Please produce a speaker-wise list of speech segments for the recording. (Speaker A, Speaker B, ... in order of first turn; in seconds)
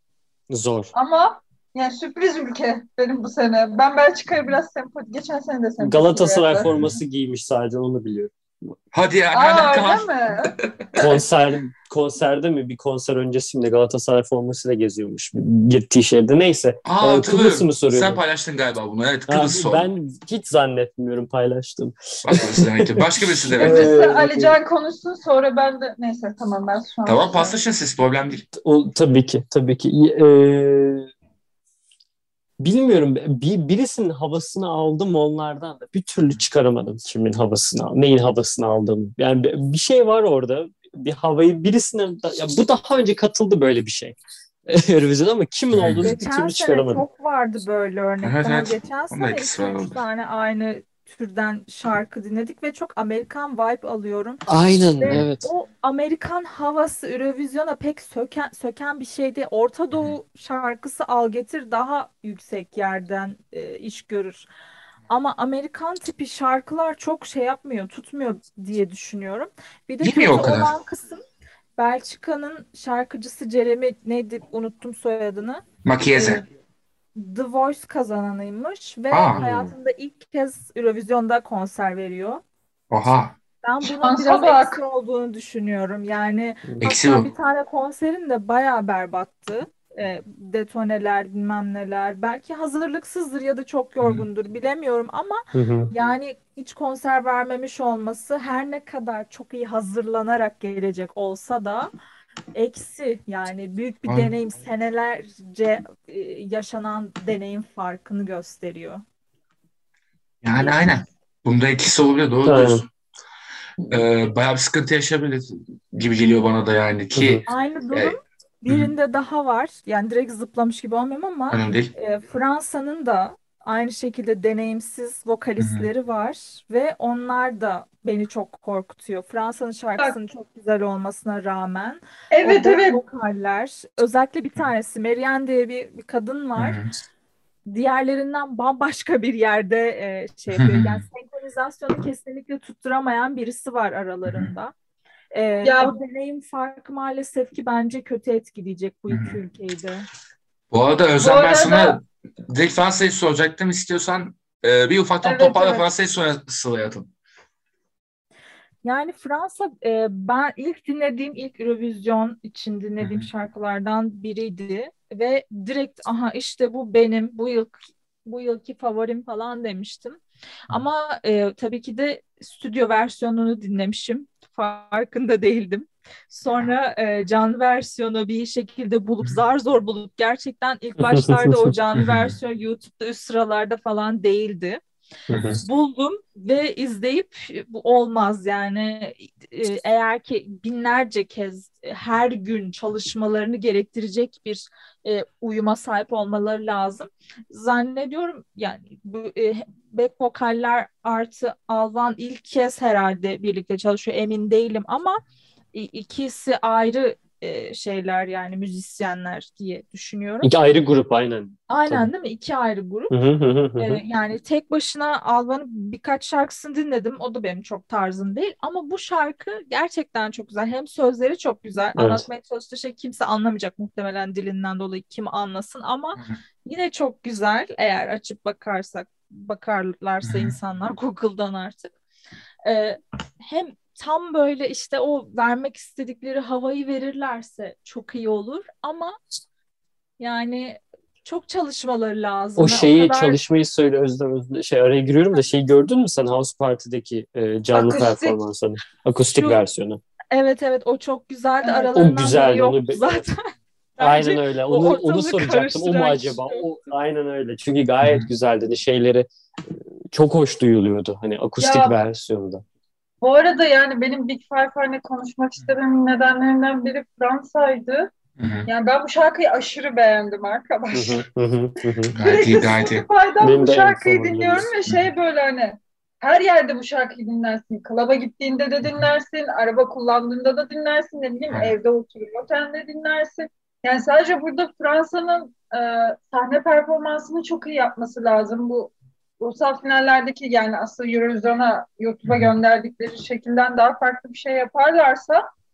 Speaker A: 0.5-0.9, 5.8-8.7, 10.9-18.2, 19.3-24.6, 28.5-31.1, 32.6-47.0, 54.5-55.5, 95.5-95.9, 112.5-112.8, 117.2-117.4, 181.1-181.7, 185.3-185.6, 210.4-212.1, 213.1-214.0, 222.0-222.3, 242.6-250.0, 251.9-253.2, 254.0-262.6, 270.9-272.1, 273.4-274.7
Speaker B: 0.9-6.7, 9.3-10.5, 23.6-27.6, 83.8-84.8, 132.3-133.0, 145.6-145.9, 151.2-152.0, 155.2-155.8, 247.7-248.4, 251.6-252.1, 261.6-261.9, 263.2-268.1, 268.7-271.2, 272.2-295.4
Speaker C: 6.6-7.0, 8.9-11.2, 16.9-19.9, 22.2-23.9, 27.1-28.5, 45.7-46.1, 48.2-50.0, 70.0-70.7, 75.8-76.4, 79.1-79.7, 82.9-83.3, 86.8-87.3, 94.0-94.3, 104.1-104.3, 110.4-112.9, 113.9-118.1, 121.5-121.9, 125.6-125.9, 136.6-136.9, 140.5-141.0, 144.3-144.5, 149.1-149.4, 150.7-157.1, 163.0-163.3, 181.9-182.3, 185.3-185.6, 230.2-230.6, 258.0-258.3, 268.4-268.7, 272.1-273.1
Speaker D: 46.0-64.5, 65.1-71.2, 71.8-76.4, 77.2-82.4, 83.6-101.9, 102.5-109.0, 117.5-136.8, 137.7-144.7, 145.3-150.1, 158.8-184.8, 185.6-205.2, 205.7-210.5, 211.7-213.1, 213.8-231.9, 232.7-239.2, 240.2-243.4, 250.3-256.7